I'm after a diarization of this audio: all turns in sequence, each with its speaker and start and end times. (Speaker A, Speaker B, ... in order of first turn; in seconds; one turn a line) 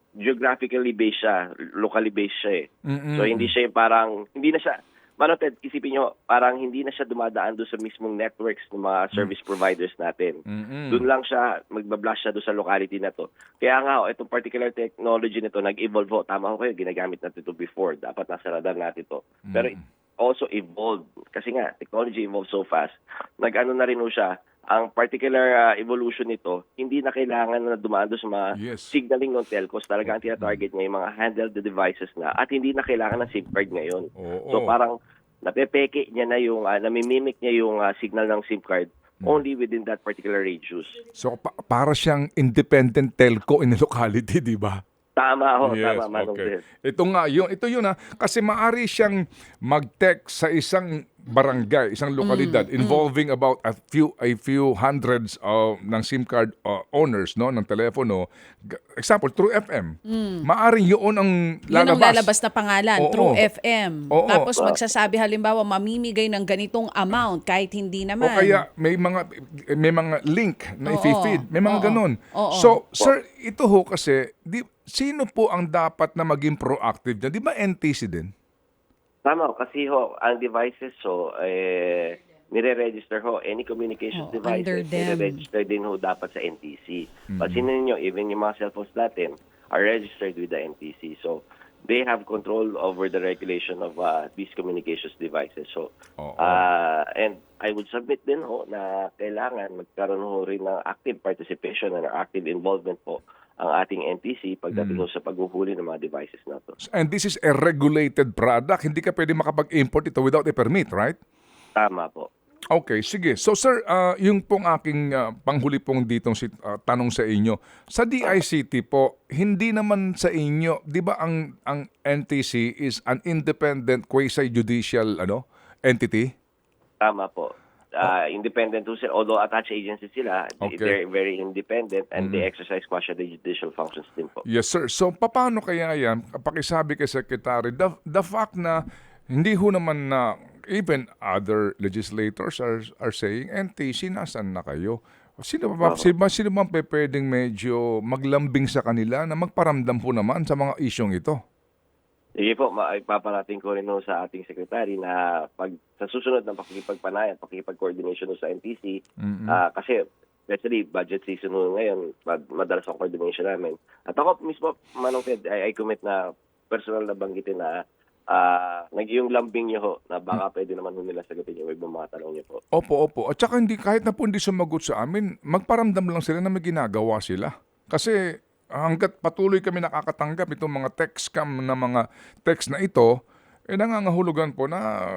Speaker A: 0.2-10.4
Speaker B: 2.9-3.5
Speaker B: 10.5-11.0
Speaker A: 10.9-41.0
Speaker B: 19.5-19.8
Speaker B: 28.5-28.9
Speaker B: 30.1-30.6
Speaker B: 34.2-34.7
Speaker B: 41.1-44.8
Speaker A: 45.2-46.6
Speaker B: 45.6-59.9
Speaker C: 52.2-53.0
Speaker C: 60.1-60.4
Speaker B: 60.4-62.3
Speaker C: 61.7-68.6
Speaker B: 63.0-63.4
Speaker B: 64.1-64.5
Speaker B: 68.2-78.3
Speaker C: 70.9-72.8
Speaker A: 79.2-95.9
Speaker C: 84.1-85.4
Speaker B: 87.3-87.7
Speaker B: 96.2-96.6
Speaker A: 96.4-106.7
Speaker B: 104.7-105.0
Speaker B: 106.9-111.2
Speaker A: 111.8-112.3
Speaker B: 112.7-126.3
Speaker A: 127.0-134.4
Speaker B: 130.6-130.9
Speaker B: 132.2-132.4
Speaker B: 134.4-138.8
Speaker B: 139.3-151.4
Speaker A: 145.8-146.1
Speaker A: 152.4-159.0
Speaker B: 159.2-159.6
Speaker A: 159.5-167.8
Speaker A: 168.3-172.6
Speaker B: 172.8-178.1
Speaker B: 178.8-183.1
Speaker B: 183.7-184.8